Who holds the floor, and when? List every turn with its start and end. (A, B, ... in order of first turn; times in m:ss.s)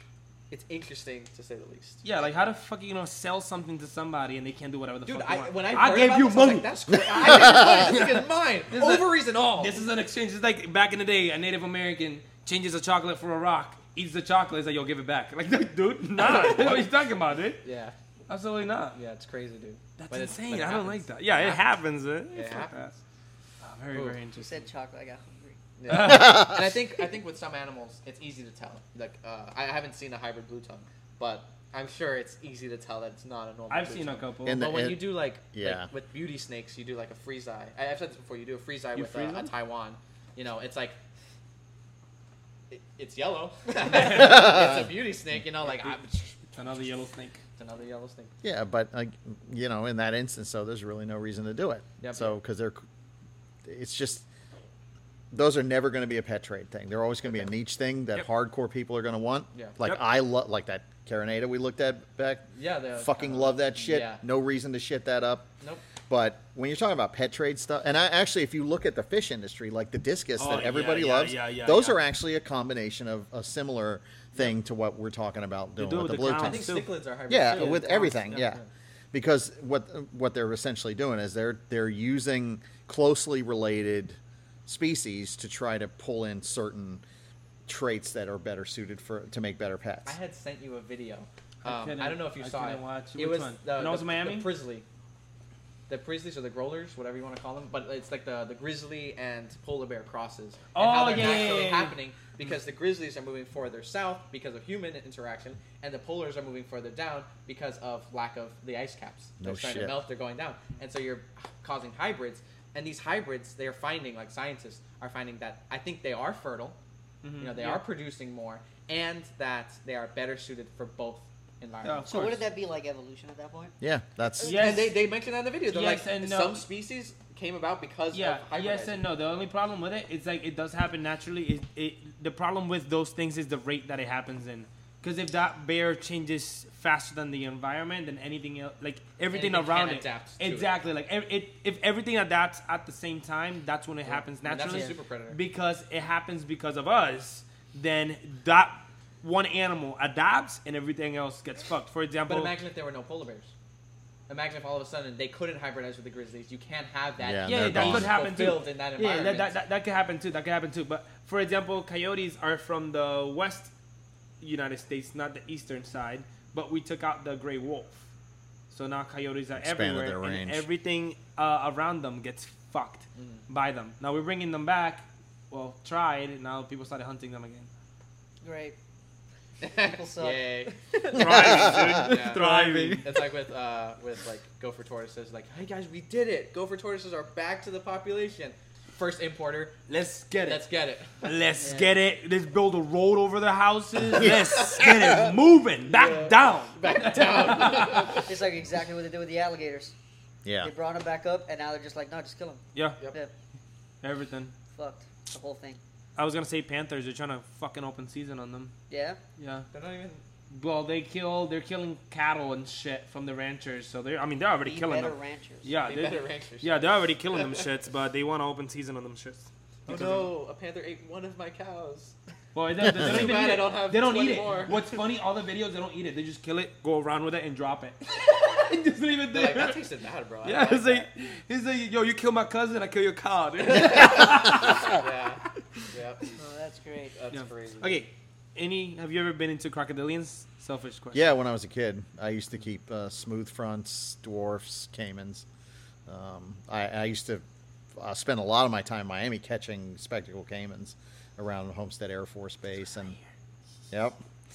0:00.5-0:02.0 A
0:02.0-0:17.6 B
0:05.0-0:09.9 A
0:07.3-0:07.6 C
0:16.2-0:16.9 A
0:17.6-0:17.9 A
0:18.3-0:19.0 B
0:18.9-0:21.6 A
0:20.0-0:23.0 B
0:22.3-0:22.7 A
0:23.6-0:24.7 B
0:23.9-0:24.2 A
0:24.4-0:25.6 D
0:25.8-0:41.0 A
0:25.9-0:26.4 B
0:25.9-0:26.6 C
0:33.7-0:34.6 B
0:34.4-0:35.9 C
0:38.9-0:39.5 B
0:42.7-0:46.5 A
0:43.9-0:44.4 B
0:44.1-0:44.9 C
0:45.7-0:45.9 B
0:46.5-0:47.4 B
0:47.6-0:48.3 A
0:48.4-0:52.8 C
0:52.0-0:52.4 A
0:53.6-0:54.3 C
0:55.3-1:05.5 C
0:59.5-0:59.8 A
1:02.6-1:04.2 A
1:06.1-1:16.7 C
1:10.4-1:12.0 B
1:15.8-1:18.6 B
1:16.3-1:18.6 A
1:17.3-1:18.6 C
1:19.1-1:27.0 C
1:27.7-1:30.2 C
1:30.0-1:34.8 A
1:31.6-1:34.5 B
1:35.9-1:56.8 A
1:40.7-1:42.0 B
1:49.4-1:50.0 C
1:57.2-1:57.8 B
1:57.4-2:02.4 A
2:01.8-2:02.4 B
2:02.0-2:03.7 D
2:03.8-2:04.8 C
2:04.4-2:05.0 B
2:04.5-2:09.0 A
2:05.7-2:06.6 B
2:08.1-2:32.6 B
2:19.3-2:20.7 A
2:24.0-2:25.4 A
2:24.7-2:24.9 D
2:32.3-2:33.5 A
2:34.3-2:39.6 A
2:37.2-2:38.1 C
2:37.4-2:43.7 B
2:39.0-2:39.3 D
2:44.4-2:48.1 B
2:48.7-2:57.7 B
2:49.6-2:50.6 C
2:53.2-2:53.4 A
2:58.4-2:58.8 D
2:59.6-3:09.8 A
2:59.8-3:03.2 D
3:01.1-3:03.1 B
3:01.2-3:02.0 C
3:09.9-3:10.7 B
3:10.4-3:11.2 A
3:11.2-3:18.2 B
3:11.6-3:11.9 D
3:14.1-3:15.3 C
3:15.9-3:18.3 A
3:18.2-3:19.9 D
3:20.4-3:20.7 C
3:20.6-3:23.3 D
3:22.7-3:23.0 B
3:24.0-3:24.5 B
3:24.7-3:25.8 D
3:26.2-3:28.7 B
3:28.9-3:29.2 D
3:29.4-3:29.6 B
3:29.7-3:30.2 A
3:30.5-3:40.3 B
3:34.6-3:35.7 D
3:35.8-3:37.6 A
3:39.8-3:42.1 A
3:42.5-3:49.8 B
3:42.8-3:43.2 C
3:42.9-3:44.8 A
3:49.3-3:51.1 A
3:50.4-3:55.0 B
3:53.7-3:56.4 A
3:56.4-3:57.2 D
3:57.1-3:58.0 A
3:57.3-4:01.3 B
4:01.1-4:05.4 C
4:06.1-4:13.2 C
4:13.9-4:14.2 C